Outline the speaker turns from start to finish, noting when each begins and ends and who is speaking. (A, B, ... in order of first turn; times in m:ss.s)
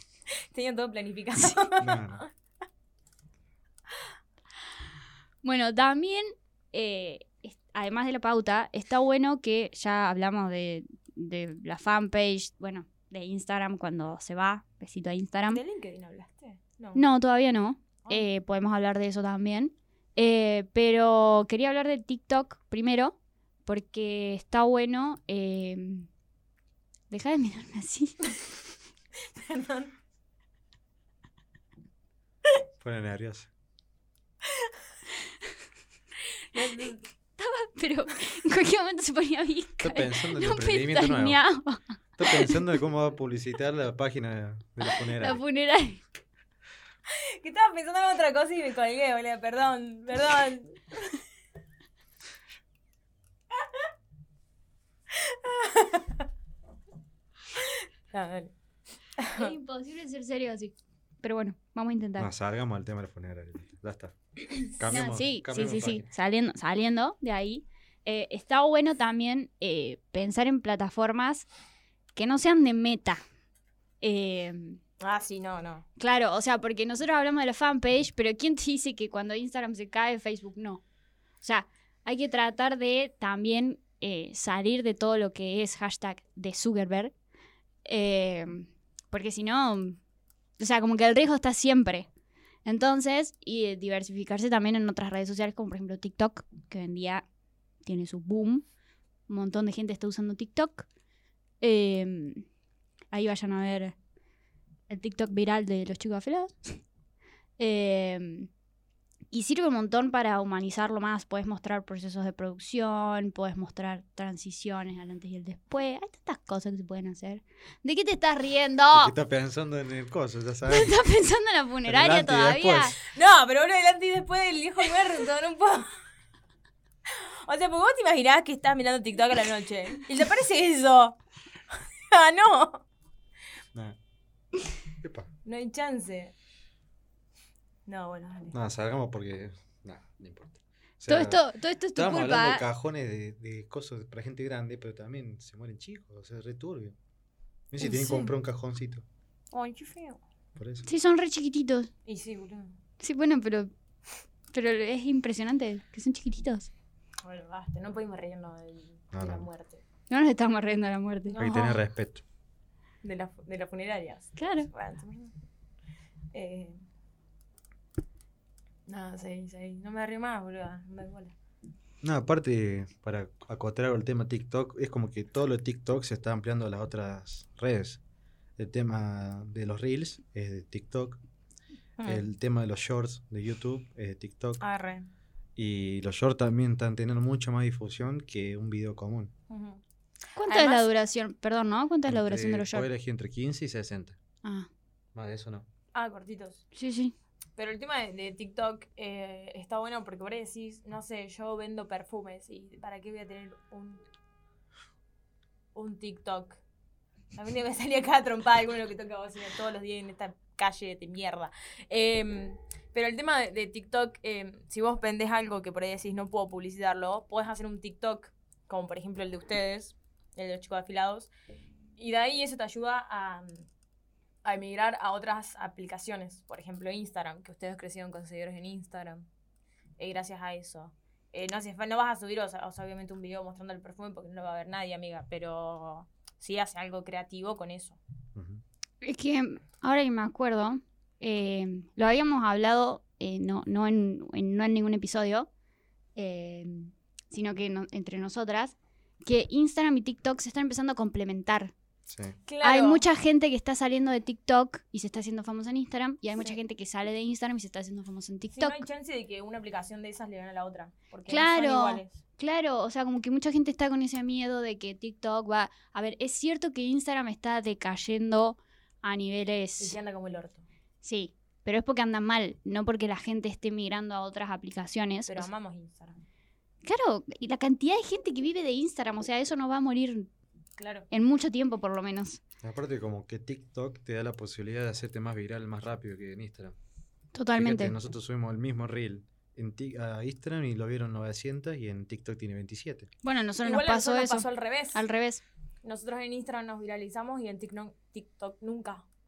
0:00.3-0:02.3 A
0:01.8-0:02.2 B
0:05.4-0:15.6 C
0:15.5-0:17.0 A
0:16.9-0:26.1 C
0:27.1-0:28.2 C
0:29.3-0:29.9 A
0:32.8-0:33.5 B
0:36.5-0:37.0 A
0:37.4-0:42.6 C
0:39.8-0:41.4 B
0:42.2-0:45.4 B
0:45.1-0:46.0 C
0:47.1-0:51.1 A
0:53.6-0:53.8 A
0:55.1-0:56.2 A
0:57.5-0:58.5 A
0:59.2-0:59.5 A
0:59.4-1:02.3 C
1:02.2-1:06.1 B
1:04.9-1:11.4 C
1:12.2-1:13.2 C
1:14.0-1:14.8 C
1:15.0-1:15.8 A
1:16.0-1:20.8 C
1:21.4-1:27.1 C
1:27.8-1:30.0 C
1:30.6-1:32.1 C
1:32.6-1:37.2 C
1:37.8-1:38.6 C
1:39.3-1:40.9 C
1:41.6-1:42.4 C
1:43.1-1:43.9 C
1:44.9-1:46.8 C
1:47.6-1:48.5 C
1:49.3-1:59.1 C
1:58.9-2:01.0 B
2:00.7-2:03.0 C
2:01.8-2:03.0 B
2:03.0-2:05.9 A
2:07.1-2:11.2 A
2:11.7-2:12.8 A
2:15.0-2:15.3 B
2:15.4-2:16.3 A
2:17.9-2:18.6 A
2:18.5-2:21.4 B
2:21.1-2:22.6 C
2:21.9-2:27.0 B
2:27.7-2:29.0 B
2:27.8-2:28.3 C
2:29.5-2:30.2 A
2:30.6-2:30.8 B
2:30.8-2:31.9 C
2:32.0-2:32.8 A
2:33.0-2:33.7 C
2:34.5-2:36.7 C
2:37.2-2:39.8 A
2:39.1-2:39.5 B
2:40.1-2:41.4 C
2:41.3-2:41.8 A
2:41.4-2:42.2 B
2:43.0-2:45.3 A
2:44.4-2:44.7 C
2:46.3-2:46.8 A
2:48.9-2:51.3 A
2:52.0-2:58.0 B
2:58.6-3:01.2 B
3:02.0-3:02.2 A
3:02.0-3:04.6 B
3:04.6-3:05.1 A
3:05.6-3:09.3 B
3:09.5-3:09.8 A
3:10.4-3:12.9 C
3:10.4-3:10.9 A
3:12.1-3:14.2 B
3:15.1-3:15.7 B
3:15.9-3:16.6 A
3:16.7-3:17.1 C
3:17.6-3:24.0 A
3:25.7-3:26.6 A
3:27.3-3:41.3 A
3:42.0-3:43.6 A
3:44.4-3:49.2 A
3:50.0-3:58.0 A
3:58.3-3:58.6 B
3:59.0-4:05.5 C
4:06.2-4:11.7 C
4:12.1-4:12.4 B
4:12.5-4:13.0 A
4:12.6-4:18.8 C
4:18.5-4:22.2 A
4:21.3-4:30.0 C
4:29.8-4:30.6 A
4:31.0-4:35.5 C
4:35.3-4:36.2 A
4:36.8-4:40.3 C
4:40.8-4:41.1 A
4:41.1-4:42.4 C
4:42.6-4:46.7 B
4:47.3-4:47.9 C
4:47.6-4:53.1 B
4:53.2-4:55.4 C
4:53.6-4:55.0 A
4:55.8-4:59.0 A